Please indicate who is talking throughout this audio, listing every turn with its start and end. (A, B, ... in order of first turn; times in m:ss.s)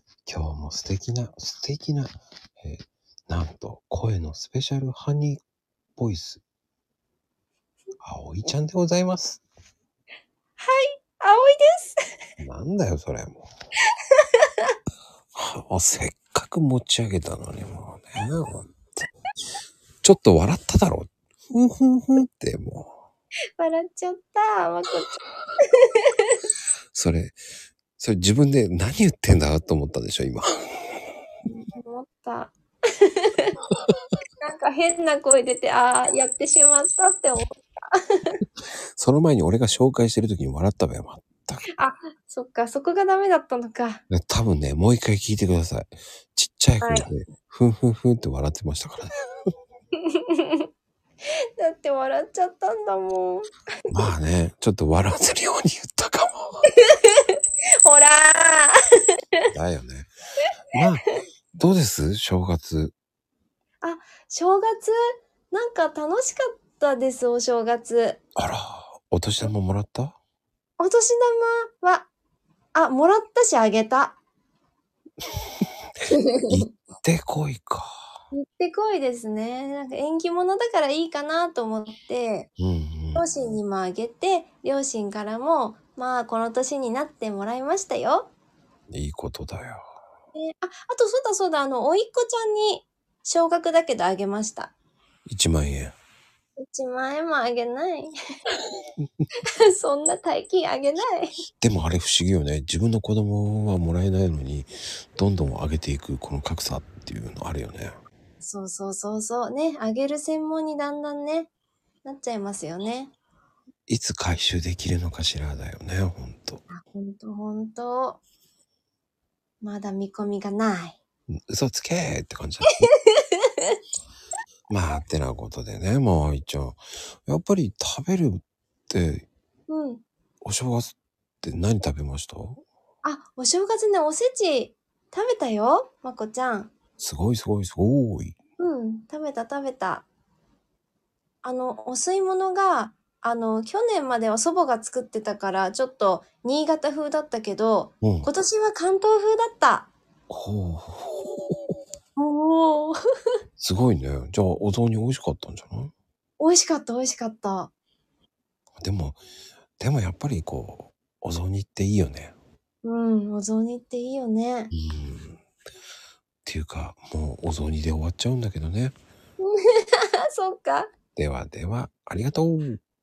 0:00.2-0:05.4 A
0:06.0-0:06.4 A
0:08.0-0:09.4 A
0:10.6-0:12.0 B
0:12.4-0:13.5 A
0:14.2-0:14.7 B
0:15.3-0:19.1 A
0:20.0-0:22.9 A
0:23.6-0:26.4 B
0:26.9-0:27.4 A
0:28.0-0:30.8 A
0:31.5-0:33.6 B
0:34.4-0:38.4 B
0:39.0-0:41.6 A
0:41.8-0:44.0 B
0:44.1-0:49.2 A
0:46.8-0:47.1 B
0:50.0-0:50.7 B
0:51.6-0:54.1 B
0:53.9-0:56.7 A
0:56.8-0:58.7 B
0:59.5-1:00.1 A
1:00.7-1:02.9 A
1:03.8-1:04.9 B
1:05.5-1:08.2 B
1:08.4-1:10.2 A
1:10.8-1:12.1 B
1:12.7-1:14.2 B
1:16.1-1:16.6 B
1:16.5-1:17.9 A
1:18.3-1:22.5 B
1:22.6-1:23.2 A
1:23.2-1:28.3 B
1:28.9-1:29.8 A
1:30.3-1:34.7 B
1:35.3-1:36.0 A
1:36.6-1:38.1 B
1:39.6-1:41.3 B
1:41.6-1:47.9 A
1:48.4-1:51.5 B
1:52.0-1:53.1 B
1:53.9-1:56.6 A
1:56.7-1:58.2 B
1:59.6-2:01.0 B
2:01.5-2:02.9 A
2:02.7-2:03.8 B
2:04.7-2:09.3 A
2:09.7-2:10.0 B
2:10.4-2:12.6 A
2:13.0-2:16.7 B
2:17.0-2:18.3 A
2:18.6-2:20.1 B
2:21.4-2:29.9 B
2:28.0-2:28.3 A
2:30.3-2:31.8 A
2:32.2-2:32.9 B
2:33.6-2:35.9 A
2:36.4-2:37.7 B
2:38.8-2:39.2 A
2:39.8-2:42.3 A
2:42.8-2:44.7 B
2:44.7-2:45.4 A
2:46.4-2:48.9 A
2:49.4-2:50.9 B
2:51.1-2:52.8 A